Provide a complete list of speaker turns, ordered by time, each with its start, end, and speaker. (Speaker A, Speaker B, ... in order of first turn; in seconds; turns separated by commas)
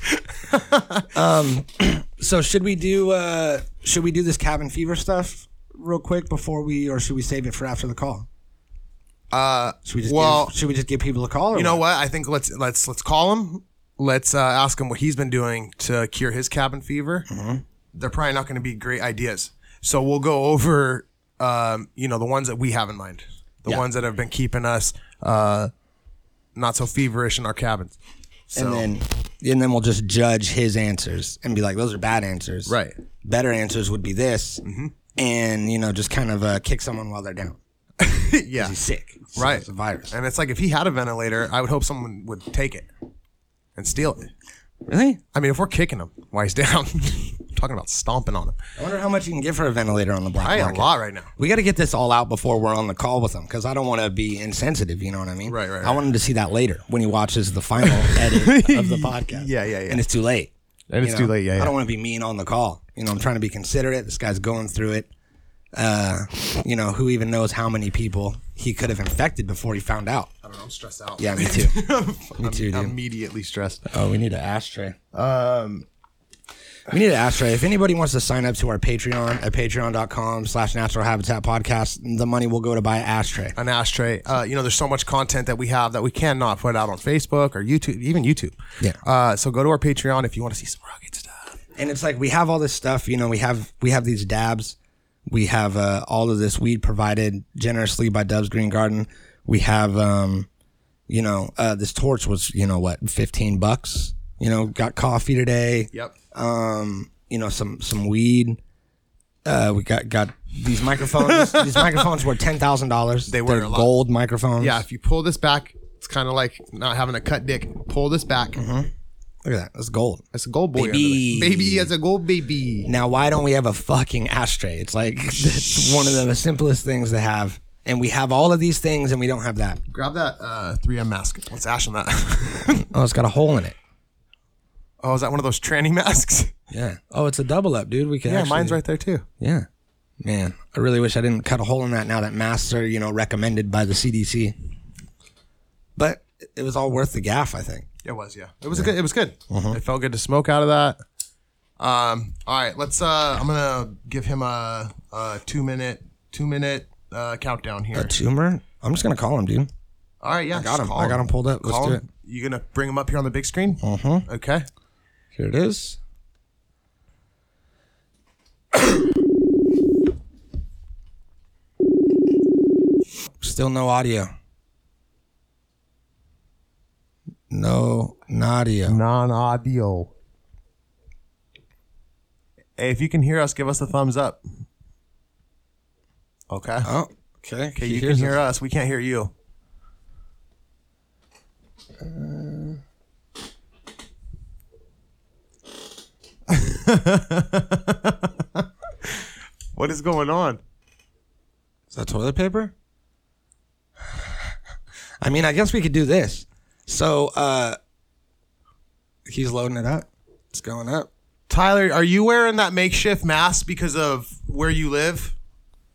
Speaker A: 0.5-1.0, Speaker B: 1.1-8.3, Speaker A: 9.3-10.5, Speaker B: 9.9-11.8, Speaker A: 11.5-17.3, Speaker B: 17.3-17.6, Speaker A: 17.9-25.7, Speaker A: 26.6-28.0, Speaker A: 28.5-28.9, Speaker B: 28.6-34.6, Speaker A: 32.7-33.0, Speaker A: 34.6-34.9, Speaker B: 35.2-37.6, Speaker A: 38.0-38.8, Speaker B: 38.6-40.1, Speaker A: 39.4-42.9, Speaker A: 43.8-44.3, Speaker B: 44.9-45.2, Speaker A: 45.3-48.6, Speaker B: 48.8-65.1, Speaker A: 50.4-51.3, Speaker A: 55.5-56.0, Speaker A: 58.0-60.0, Speaker A: 60.9-61.8, Speaker B: 65.7-70.3, Speaker A: 70.4-73.9, Speaker B: 71.2-73.0, Speaker B: 73.9-75.0, Speaker A: 75.1-75.9, Speaker B: 76.9-83.6, Speaker A: 83.6-91.5, Speaker B: 91.8-94.8, Speaker B: 95.3-100.5, Speaker B: 101.1-108.6, Speaker B: 109.5-114.8, Speaker A: 111.2-112.1, Speaker A: 113.3-113.9, Speaker A: 114.6-118.6, Speaker B: 118.6-118.9, Speaker B: 119.5-121.9, Speaker A: 120.3-122.9, Speaker B: 122.8-129.8, Speaker A: 125.5-126.1, Speaker A: 129.9-132.8, Speaker B: 132.8-133.8, Speaker A: 135.0-136.5, Speaker B: 136.7-138.8, Speaker A: 138.2-139.2, Speaker B: 139.4-139.7, Speaker B: 140.2-144.6, Speaker B: 146.0-147.9, Speaker A: 148.0-151.0, Speaker B: 149.5-149.8, Speaker A: 151.8-158.1, Speaker B: 157.9-159.7, Speaker A: 160.2-164.7, Speaker B: 160.5-162.1, Speaker B: 163.8-164.3, Speaker B: 165.3-166.0, Speaker B: 173.4-174.3, Speaker B: 177.5-179.0, Speaker A: 178.9-180.1, Speaker A: 182.8-184.4, Speaker A: 186.5-186.9, Speaker B: 186.8-188.4, Speaker A: 187.8-189.3, Speaker B: 192.0-192.8, Speaker A: 196.5-199.2, Speaker A: 199.7-200.6, Speaker B: 201.9-202.7, Speaker B: 205.2-207.8, Speaker B: 209.3-211.1, Speaker A: 211.5-215.3